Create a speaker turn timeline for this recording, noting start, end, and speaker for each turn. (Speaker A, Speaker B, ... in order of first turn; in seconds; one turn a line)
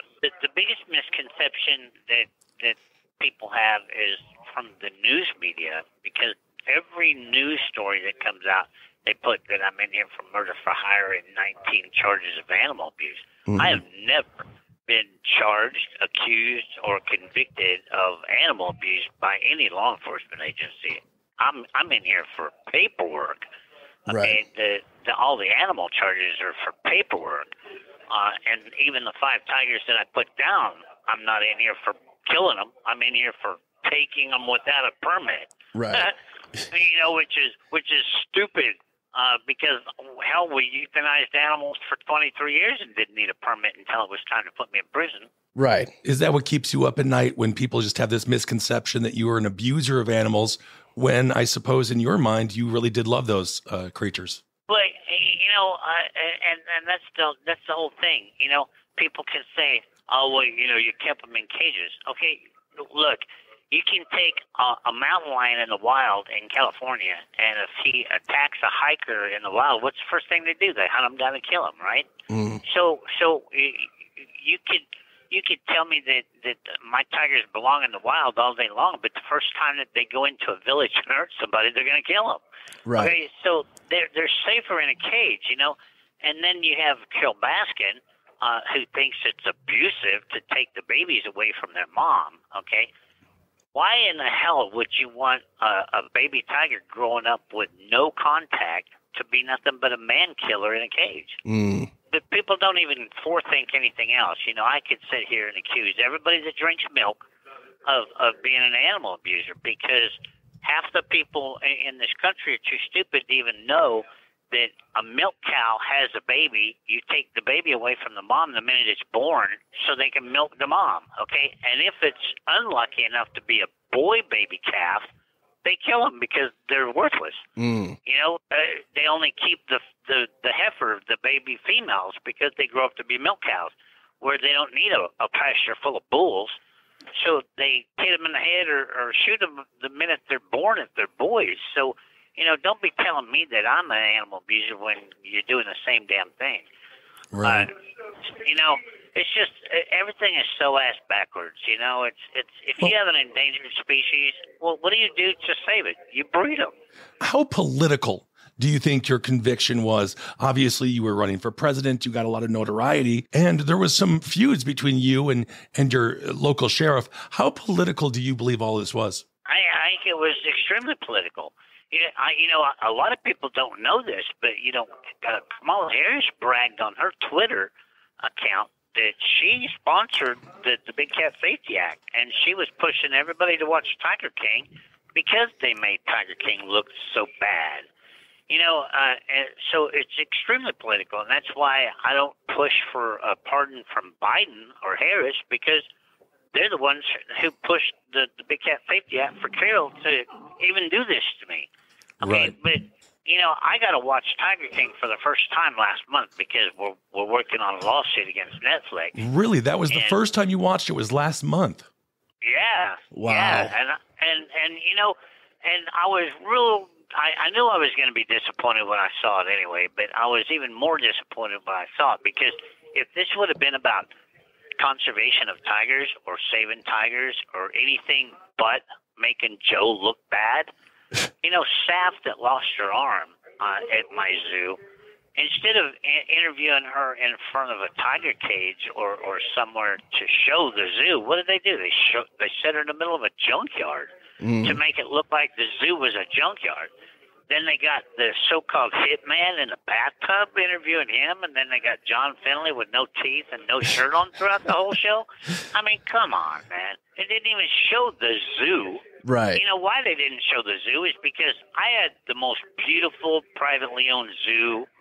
Speaker A: 0.2-23.4
Speaker B: 13.5-13.8
Speaker B: 24.1-24.4
Speaker A: 24.1-27.5
Speaker A: 28.1-36.1
Speaker B: 35.7-36.1
Speaker A: 36.7-45.3
Speaker B: 45.5-45.9
Speaker C: 46.0-54.4
Speaker A: 54.7-72.1
Speaker B: 72.3-72.6
Speaker A: 72.7-82.4
Speaker B: 82.9-83.2
Speaker A: 82.9-92.9
Speaker A: 93.8-101.4
Speaker B: 101.5-101.9
Speaker A: 102.1-107.2
Speaker A: 107.9-125.1
Speaker A: 125.6-127.4
Speaker B: 127.6-128.0
Speaker A: 128.1-136.5
Speaker A: 137.2-146.7
Speaker C: 147.3-147.7
Speaker A: 147.4-147.7
Speaker A: 148.3-156.7
Speaker C: 157.2-169.2
Speaker A: 169.5-177.7
Speaker A: 178.2-187.9
Speaker A: 188.5-195.8
Speaker A: 196.5-201.7
Speaker A: 202.2-209.2
Speaker C: 202.2-202.6
Speaker C: 209.2-211.9
Speaker A: 212.4-224.1
Speaker B: 213.1-213.7
Speaker A: 224.8-230.7
Speaker A: 231.4-234.8
Speaker A: 235.4-244.1
Speaker B: 244.4-244.8
Speaker A: 244.6-246.9
Speaker A: 247.5-259.0
Speaker B: 259.2-259.6
Speaker A: 259.6-264.9